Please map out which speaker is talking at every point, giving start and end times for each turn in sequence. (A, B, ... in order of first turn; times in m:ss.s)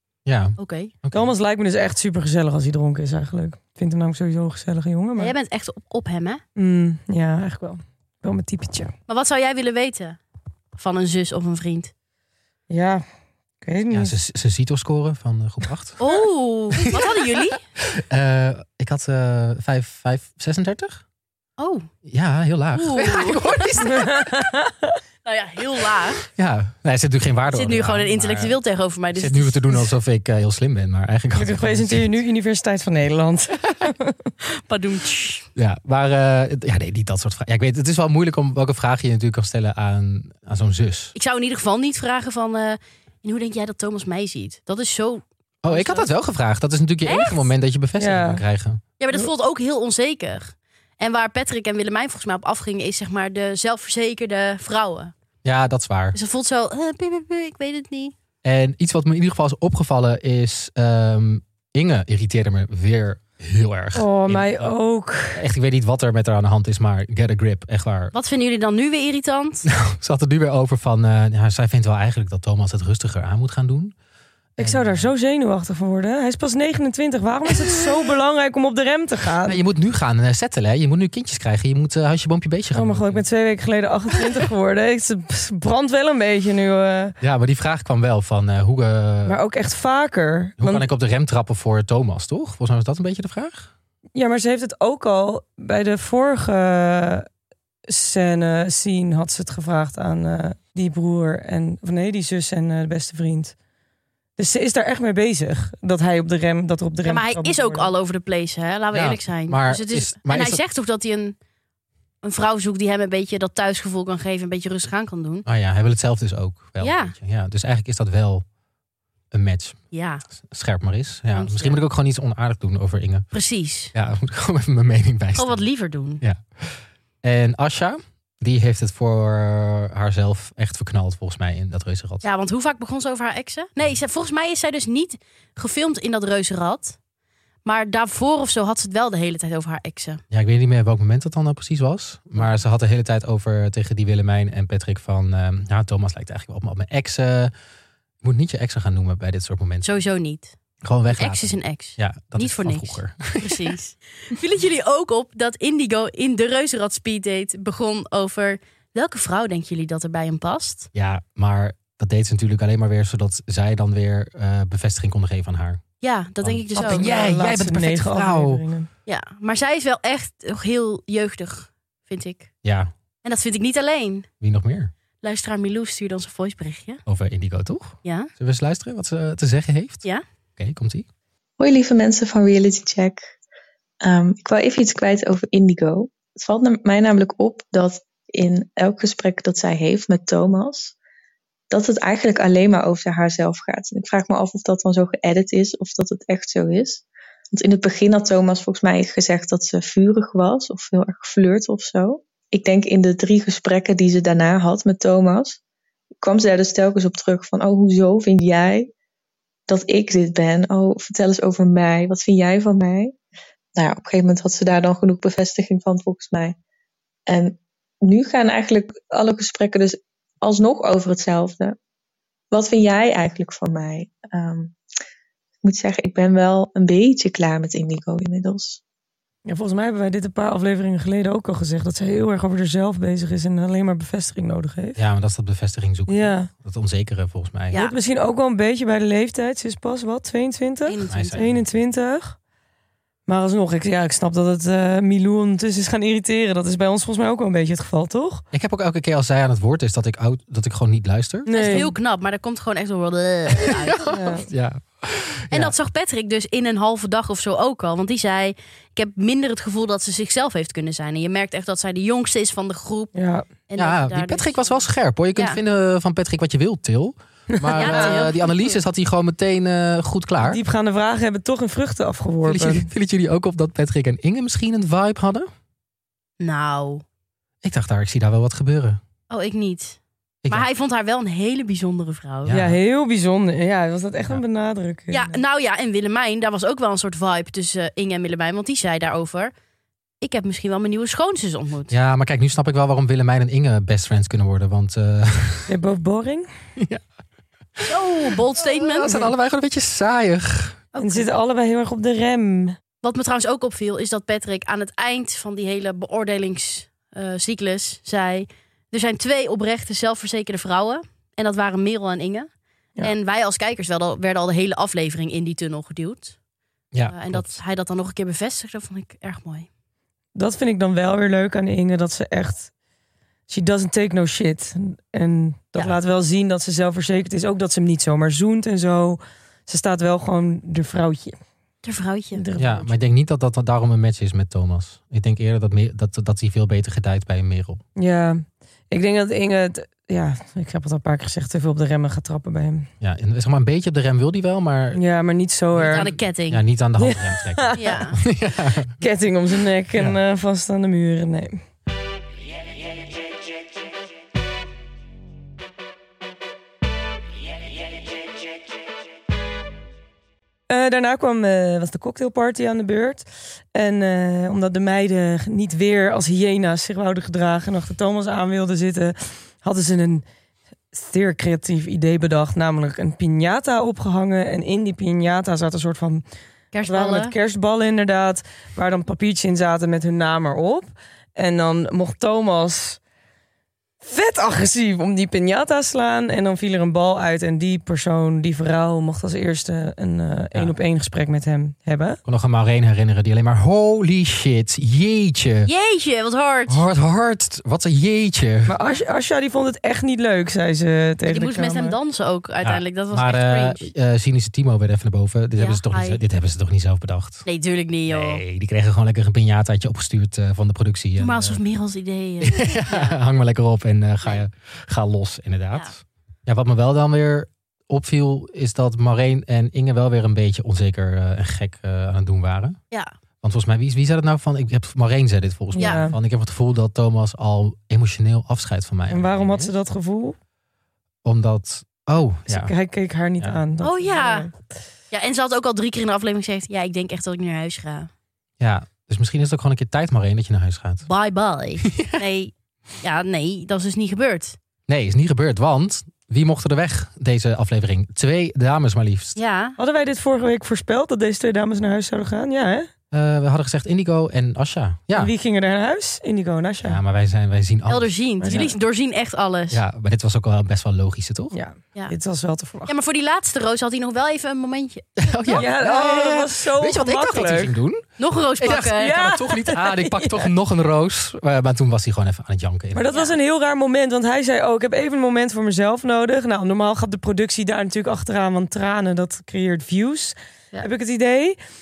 0:00.2-0:01.3 A
0:00.6-0:00.9 B
0:01.1-0:05.3 C
0:05.2-0:06.4 B
0:06.6-0:08.9 C
0:09.1-0:10.2 B
0:10.8-0:11.9 B
0:12.7-0:13.0 C
0:13.6-0:14.2 C
0:13.9-0:16.0 A
0:16.0-0:17.6 B
0:17.8-0:21.0 A
0:21.6-0:21.9 B
0:22.0-0:24.3 A
0:22.7-0:23.8 B
0:23.8-0:25.0 C
0:25.2-0:26.3 B
0:26.4-0:28.6 A
0:27.5-0:29.8 B
0:29.1-0:32.1 A
0:31.3-0:34.3 C
0:34.5-0:35.5 B
0:35.6-0:41.1 A
0:41.1-0:46.1 B
0:45.6-0:48.8 A
0:47.0-0:47.5 B
0:48.0-0:48.4 C
0:49.0-0:55.1 B
0:55.4-0:56.2 A
0:56.1-0:58.1 B
0:58.4-1:04.7 A
1:03.9-1:05.4 C
1:05.3-1:08.1 A
1:08.1-1:09.7 B
1:09.6-1:13.9 A
1:14.6-1:15.1 A
1:14.6-1:19.6 C
1:19.4-1:23.2 A
1:22.7-1:27.2 C
1:27.2-1:29.4 A
1:29.2-1:30.9 C
1:30.6-1:33.7 A
1:34.1-1:37.3 C
1:37.9-1:43.5 C
1:44.4-1:47.9 C
1:47.0-1:51.3 B
1:48.9-1:50.6 A
1:52.2-1:55.4 B
1:55.4-1:58.4 A
1:56.8-1:57.1 B
1:59.3-1:59.8 A
1:59.9-2:00.2 B
2:00.4-2:03.3 A
2:01.3-2:01.8 B
2:03.3-2:03.9 B
2:03.9-2:05.7 A
2:05.3-2:06.2 B
2:06.2-2:12.2 A
2:12.2-2:17.0 B
2:17.6-2:20.2 B
2:20.3-2:27.5 A
2:28.2-2:29.9 A
2:29.8-2:30.6 B
2:30.8-2:33.7 A
2:31.1-2:40.9 B
2:40.9-2:45.8 A
2:46.0-2:47.2 B
2:46.4-2:48.6 A
2:46.7-2:48.9 C
2:49.1-2:52.5 B
2:52.6-2:52.9 A
2:53.2-2:54.3 B
2:54.4-2:54.9 A
2:55.2-2:57.0 B
2:57.0-3:00.0 A
2:58.0-2:58.3 B
3:00.6-3:01.1 A
3:01.6-3:03.2 D
3:04.0-3:10.9 D
3:11.7-3:25.6 D
3:26.2-3:28.9 D
3:29.7-3:33.2 D
3:33.8-3:36.6 D
3:37.3-3:41.8 D
3:42.5-3:44.8 D
3:45.6-3:48.8 D
3:49.4-3:55.0 C
3:55.0-3:57.8 A
3:56.1-3:56.5 C
3:57.7-3:58.0 B
3:57.7-4:02.4 C
4:00.8-4:01.5 B
4:01.1-4:01.6 A
4:03.3-4:08.4 C
4:08.5-4:11.9 A
4:11.4-4:11.9 C
4:11.5-4:14.1 B
4:13.5-4:15.8 A
4:14.0-4:14.5 C
4:15.5-4:23.1 B
4:23.1-4:23.5 C
4:23.7-4:25.6 B
4:23.8-4:30.6 A
4:27.5-4:28.2 C
4:27.8-4:28.7 B
4:30.4-4:32.9 C
4:32.4-4:35.5 A
4:36.4-4:37.0 B
4:37.6-4:39.0 A
4:39.3-4:42.6 B
4:42.4-4:42.8 A
4:42.5-4:45.4 C
4:45.1-4:49.5 B
4:50.2-4:51.9 B
4:51.9-4:55.7 A
4:55.7-4:56.5 C
4:56.8-4:57.0 A
4:57.8-5:00.8 A
4:57.8-4:59.3 B
5:00.9-5:01.3 B
5:01.0-5:02.8 C
5:03.0-5:12.5 B
5:13.0-5:16.4 B
5:16.9-5:17.6 A
5:17.1-5:19.7 B
5:20.3-5:22.7 C
5:23.5-5:31.4 C
5:31.8-5:32.4 B
5:32.3-5:33.0 C
5:32.6-5:37.8 A
5:38.0-5:42.9 C
5:43.0-5:45.0 A
5:44.9-5:46.1 C
5:45.7-5:48.9 A
5:45.9-5:46.6 B
5:47.0-5:48.0 C
5:47.7-5:48.2 B
5:49.0-5:51.6 C
6:00.7-6:10.2 C
6:10.9-6:16.2 C
6:16.7-6:17.3 B
6:16.8-6:23.0 C
6:24.0-6:32.2 C
6:32.2-6:35.7 A
6:35.6-6:36.8 B
6:36.7-6:38.8 A
6:38.7-6:42.0 C
6:41.2-6:43.8 B
6:42.6-6:47.4 A
6:45.6-6:46.2 B
6:47.4-6:48.4 B
6:48.1-6:51.6 A
6:51.2-6:53.2 B
6:52.4-7:02.8 A
7:03.4-7:09.7 A
7:05.7-7:06.2 C
7:05.8-7:06.0 B
7:09.1-7:10.4 C
7:11.2-7:12.7 A
7:12.5-7:14.5 C
7:13.8-7:14.5 B
7:15.1-7:18.1 B
7:18.6-7:21.0 A
7:21.0-7:24.6 B
7:21.9-7:22.2 A
7:24.9-7:29.4 A
7:29.4-7:29.8 B
7:29.8-7:32.9 C
7:33.1-7:35.3 A
7:35.1-7:37.0 C
7:36.8-7:38.7 A
7:37.9-7:39.8 B
7:38.4-7:38.7 C
7:39.7-7:41.5 A
7:41.5-7:42.9 C
7:42.9-7:45.6 B
7:45.2-7:53.0 A
7:45.6-7:47.8 C
7:48.2-7:49.4 B
7:49.0-7:50.5 C
7:52.9-8:01.6 C
7:53.1-7:53.4 B